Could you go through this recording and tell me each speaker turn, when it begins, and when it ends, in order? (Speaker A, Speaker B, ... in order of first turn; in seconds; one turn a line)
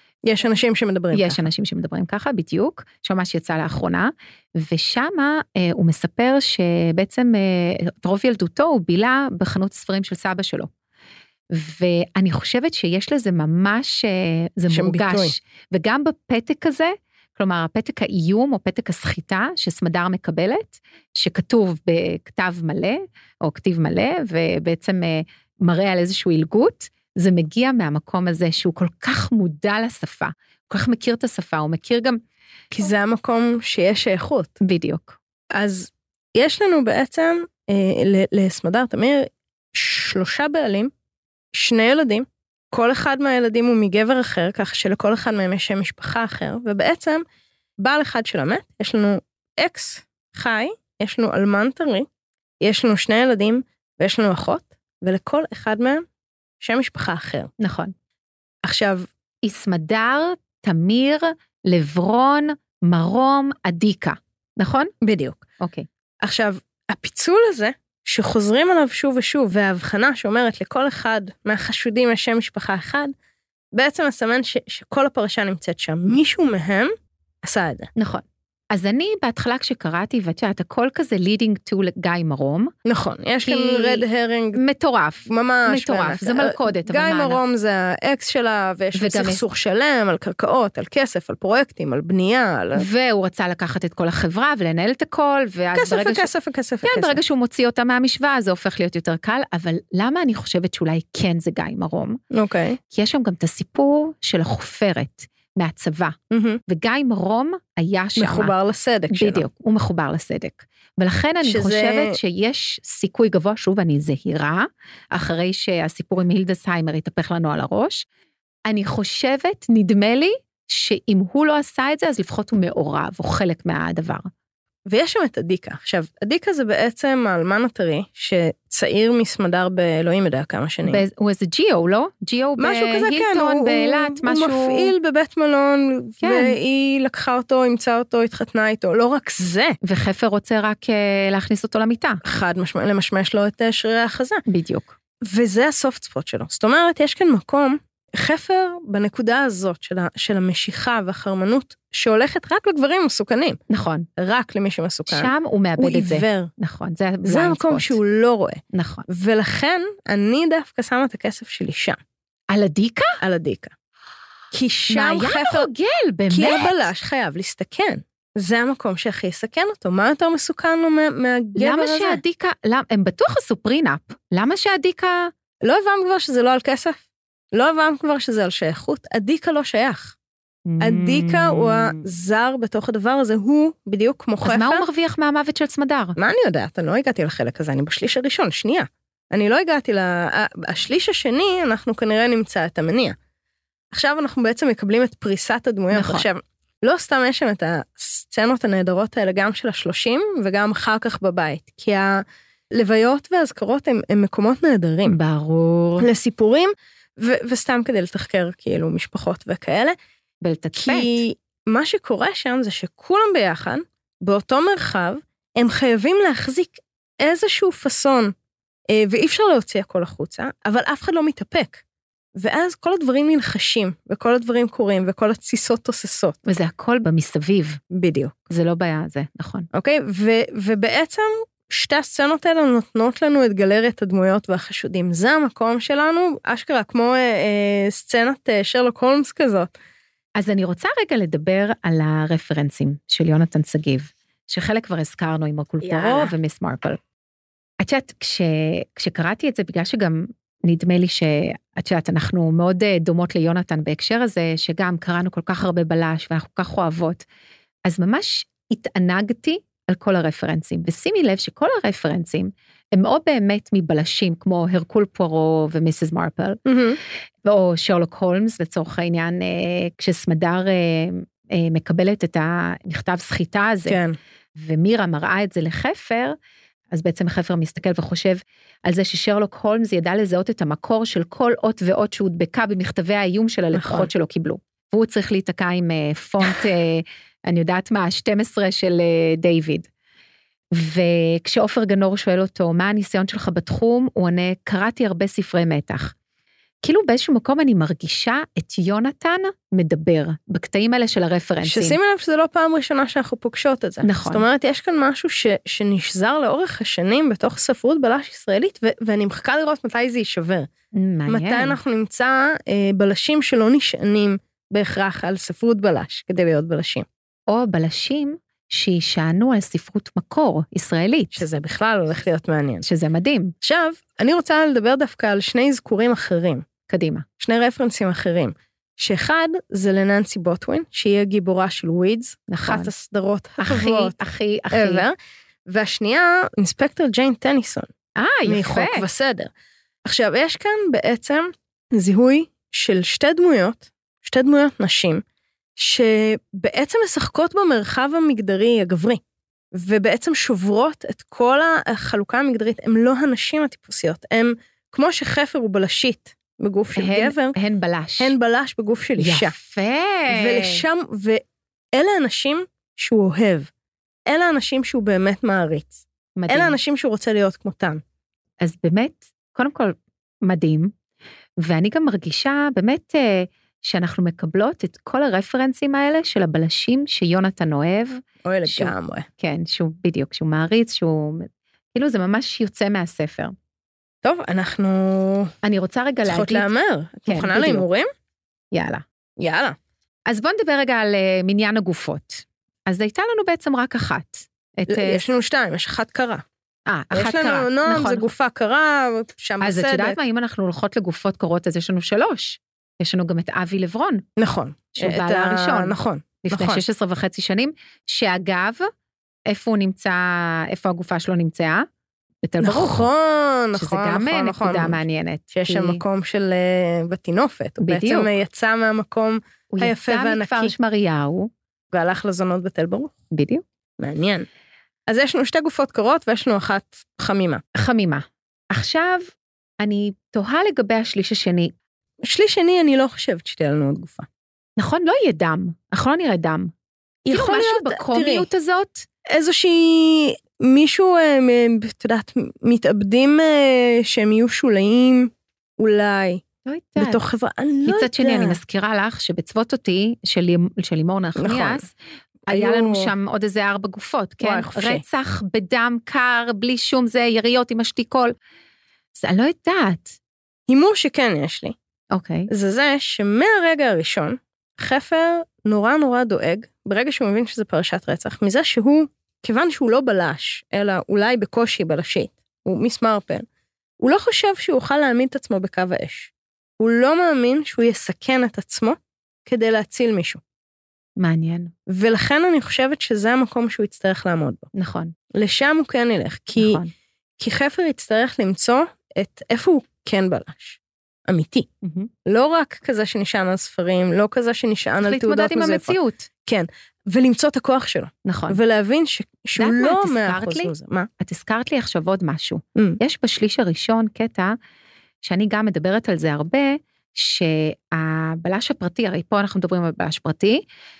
Speaker A: 0.2-1.4
Speaker B: 1.1-10.7
Speaker B: 11.5-32.2
Speaker A: 14.7-15.3
Speaker A: 32.7-34.6
Speaker B: 34.6-35.2
Speaker A: 35.5-40.9
Speaker A: 41.5-47.2
Speaker A: 47.8-52.1
Speaker A: 52.6-56.0
Speaker A: 56.6-57.5
Speaker B: 57.6-57.9
Speaker A: 58.6-59.1
Speaker B: 59.4-64.9
Speaker A: 65.0-65.4
Speaker B: 65.6-65.9
Speaker A: 66.2-73.1
Speaker A: 73.7-76.9
Speaker A: 77.4-77.9
Speaker B: 78.0-82.7
Speaker A: 82.8-84.6
Speaker B: 83.4-87.4
Speaker A: 85.3-92.8
Speaker B: 88.9-89.4
Speaker B: 92.8-96.3
Speaker A: 95.7-97.2
Speaker B: 96.8-102.2
Speaker A: 102.3-102.8
Speaker B: 102.9-106.2
Speaker A: 106.3-106.6
Speaker B: 106.7-108.5
Speaker A: 108.2-109.5
Speaker B: 109.1-118.0
Speaker A: 111.4-112.2
Speaker B: 118.7-124.3
Speaker A: 124.9-131.0
Speaker B: 130.8-134.9
Speaker A: 132.6-139.8
Speaker B: 136.2-136.6
Speaker B: 139.8-142.2
Speaker A: 142.2-144.4
Speaker B: 144.5-145.0
Speaker A: 145.2-153.6
Speaker B: 153.7-154.1
Speaker A: 154.2-156.5
Speaker B: 155.1-158.0
Speaker A: 157.2-162.0
Speaker B: 158.7-159.1
Speaker B: 162.5-163.2
Speaker A: 163.2-163.7
Speaker A: 164.5-165.7
Speaker B: 164.9-166.9
Speaker A: 166.3-172.2
Speaker B: 171.6-175.3
Speaker A: 175.6-180.2
Speaker B: 180.7-182.0
Speaker A: 180.8-184.9
Speaker B: 184.4-186.2
Speaker A: 186.2-193.2
Speaker A: 193.9-205.2
Speaker B: 195.9-196.3
Speaker B: 205.1-206.1
Speaker A: 206.0-209.9
Speaker B: 210.4-211.2
Speaker A: 210.7-218.3
Speaker A: 218.9-221.8
Speaker A: 222.3-226.4
Speaker B: 226.4-227.8
Speaker A: 227.9-228.5
Speaker B: 228.5-229.7
Speaker A: 229.7-239.7
Speaker B: 240.4-247.0
Speaker A: 245.8-246.3
Speaker B: 247.8-257.2
Speaker B: 257.9-266.6
Speaker A: 266.6-267.0
Speaker B: 267.4-274.0
Speaker A: 273.9-274.1
Speaker B: 274.6-276.4
Speaker B: 276.9-289.9
Speaker A: 283.7-284.1
Speaker B: 290.7-296.1
Speaker B: 296.8-302.0
Speaker A: 301.6-310.7
Speaker B: 304.0-304.4
Speaker B: 310.9-311.8
Speaker A: 311.3-317.1
Speaker B: 317.5-321.4
Speaker A: 321.3-322.8
Speaker B: 322.8-323.5
Speaker A: 323.6-326.6
Speaker B: 326.9-327.2
Speaker A: 327.4-334.2
Speaker B: 332.5-332.9
Speaker B: 333.6-335.0
Speaker A: 334.7-337.9
Speaker B: 338.2-339.1
Speaker A: 338.4-339.5
Speaker A: 340.0-345.2
Speaker A: 345.8-349.2
Speaker A: 349.7-357.6
Speaker B: 356.9-358.3
Speaker A: 358.2-359.5
Speaker B: 359.2-360.8
Speaker A: 360.3-361.4
Speaker A: 361.9-363.7
Speaker A: 364.3-368.0
Speaker B: 366.4-366.8
Speaker B: 368.6-370.9
Speaker B: 371.6-383.5
Speaker A: 378.4-379.3
Speaker A: 384.2-385.5
Speaker B: 385.6-386.7
Speaker A: 386.2-388.1
Speaker B: 387.3-387.8
Speaker B: 388.7-389.0
Speaker A: 389.4-389.8
Speaker B: 390.3-395.3
Speaker A: 394.9-396.4
Speaker B: 396.9-398.3
Speaker A: 397.1-400.2
Speaker B: 399.6-404.2
Speaker A: 404.4-406.8
Speaker B: 404.9-408.9
Speaker B: 409.5-411.9
Speaker B: 412.4-413.1
Speaker A: 412.6-420.8
Speaker B: 413.7-416.0
Speaker B: 417.8-418.3
Speaker B: 419.7-421.5
Speaker A: 421.9-423.1
Speaker B: 423.3-423.6
Speaker A: 424.0-424.4
Speaker A: 425.1-427.6
Speaker B: 427.7-431.7
Speaker A: 432.2-434.3
Speaker B: 434.8-436.7
Speaker A: 437.2-438.5
Speaker B: 437.3-439.1
Speaker A: 439.3-446.4
Speaker B: 446.6-447.2
Speaker A: 447.0-448.6
Speaker B: 447.8-451.9
Speaker A: 451.4-451.8
Speaker A: 452.5-453.1
Speaker B: 452.5-458.3
Speaker A: 454.4-455.0
Speaker B: 459.1-460.1
Speaker A: 460.7-461.8
Speaker B: 462.1-462.5
Speaker A: 462.5-473.5
Speaker A: 474.0-480.4
Speaker B: 481.2-481.7
Speaker A: 481.9-484.7
Speaker B: 484.7-485.1
Speaker A: 485.3-486.8
Speaker B: 486.6-486.9
Speaker A: 487.4-491.7
Speaker B: 491.8-492.1
Speaker A: 492.2-501.1
Speaker B: 495.0-496.3
Speaker B: 498.2-498.6
Speaker B: 499.6-504.5
Speaker B: 505.2-510.6